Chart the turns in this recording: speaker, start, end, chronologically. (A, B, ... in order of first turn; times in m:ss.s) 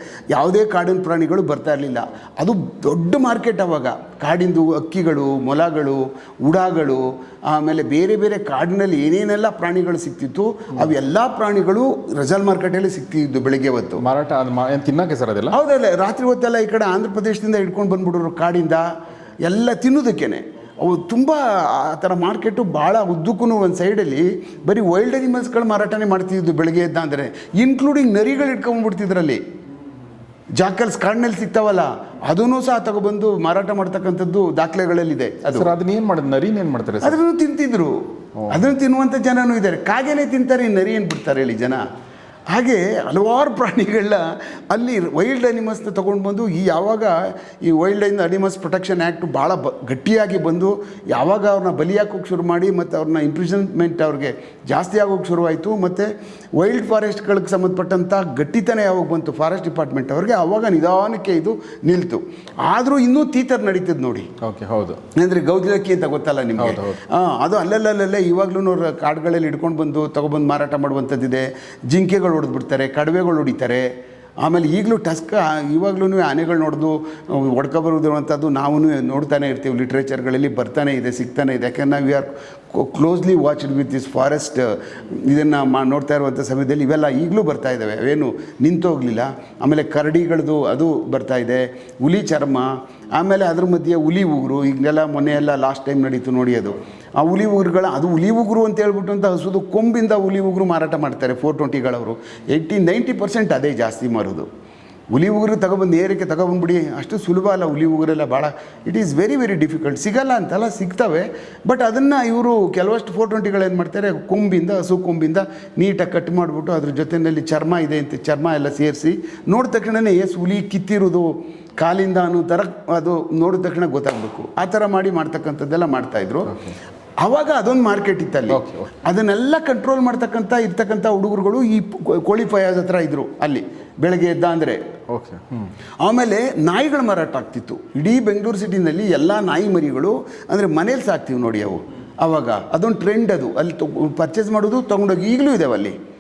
0:00.3-0:14.0 A
0:14.0-0:15.6 B
0:15.5-0:18.9 A
0:19.4-0:29.4 A
0:30.6-0:35.7 A
0:35.5-0:37.2 B
0:37.0-0:41.8 A
0:38.4-0:38.6 B
0:42.5-1:04.3 A
1:04.4-1:05.0 B
1:05.1-1:13.8 A
1:06.6-1:07.0 B
1:14.4-1:44.5 A
1:45.1-2:06.5 A
2:06.5-2:06.8 B
2:07.2-2:14.8 A
2:08.5-2:08.9 B
2:15.1-2:15.7 B
2:16.0-2:26.0 A